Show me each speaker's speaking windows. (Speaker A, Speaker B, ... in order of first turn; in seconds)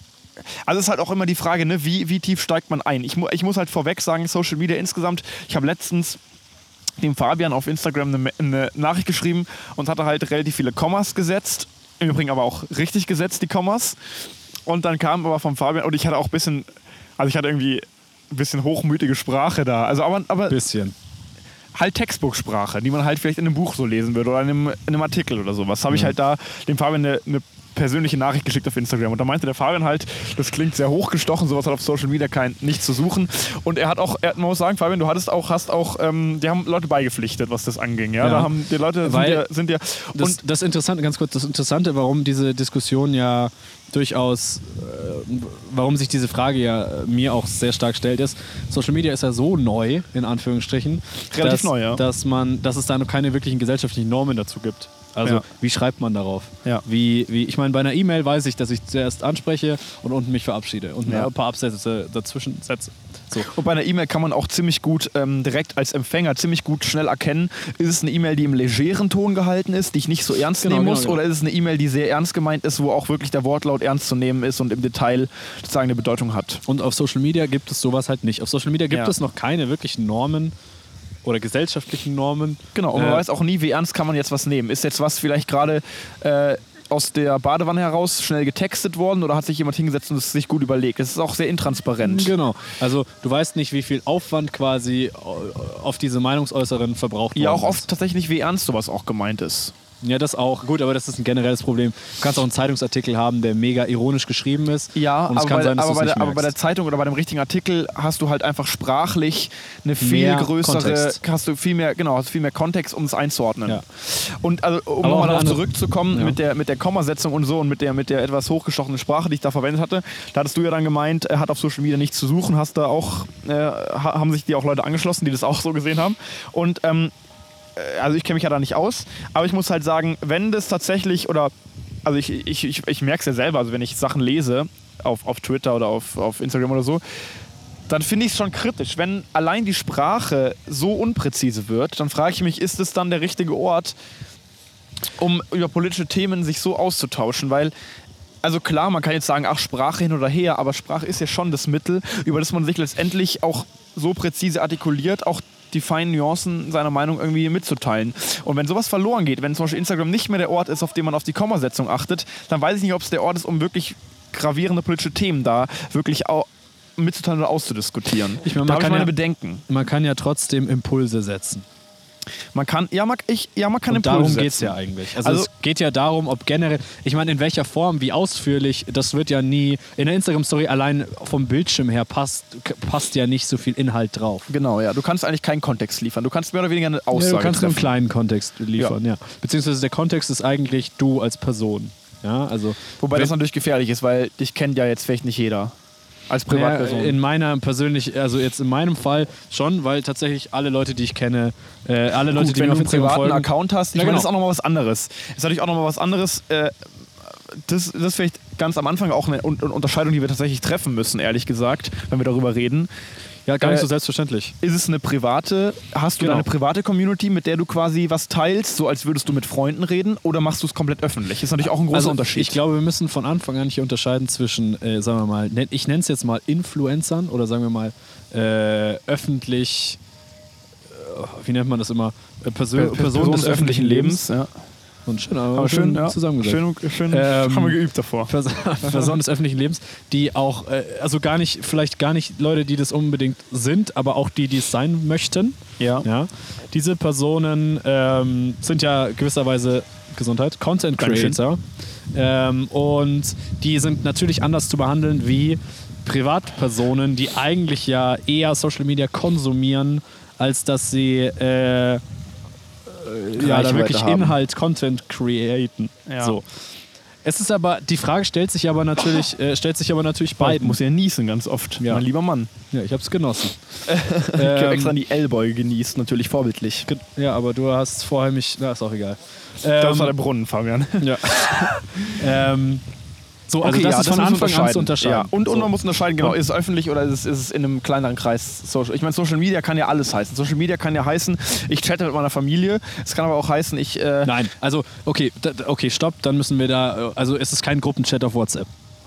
Speaker A: 0.7-6.2, 7.0-14.1, 14.7-20.6, 21.7-40.4, 51.3-52.0, 61.0-61.3, 63.4-76.6, 82.8-92.3, 97.3-99.7, 105.0-127.1, 127.8-131.5, 132.1-137.0, 137.9-144.0, 145.2-147.7, 148.4-169.6, 172.6-175.5, 184.5-187.9, 193.0-195.7, 196.3-197.2, 202.3-206.7, 207.5-212.9, 213.6-213.9, 214.6-222.6, 232.8-234.5, 235.5-239.2, 245.8-246.1, 251.0-251.4, 263.4-264.4, 266.1-266.4, 270.4-272.5, 273.9-276.9, 279.8-282.2, 283.6-294.4
Speaker B: 20.5-20.9, 38.2-38.5, 39.0-39.4, 40.1-63.5, 70.6-71.2, 76.7-80.5, 81.2-83.2, 92.0-97.9, 100.0-106.5, 110.0-111.2, 115.0-116.4, 168.4-169.1, 169.7-171.7, 173.9-184.5, 187.1-193.3, 196.5-204.3, 213.5-214.6, 216.2-216.5, 221.9-230.0, 230.9-234.2, 235.1-251.6, 252.1-262.0, 262.9-266.5, 267.2-270.8, 271.8-272.0, 272.7-273.6, 274.4-275.0, 276.9-280.1, 281.0-282.8, 283.5-286.4, 294.2-298.7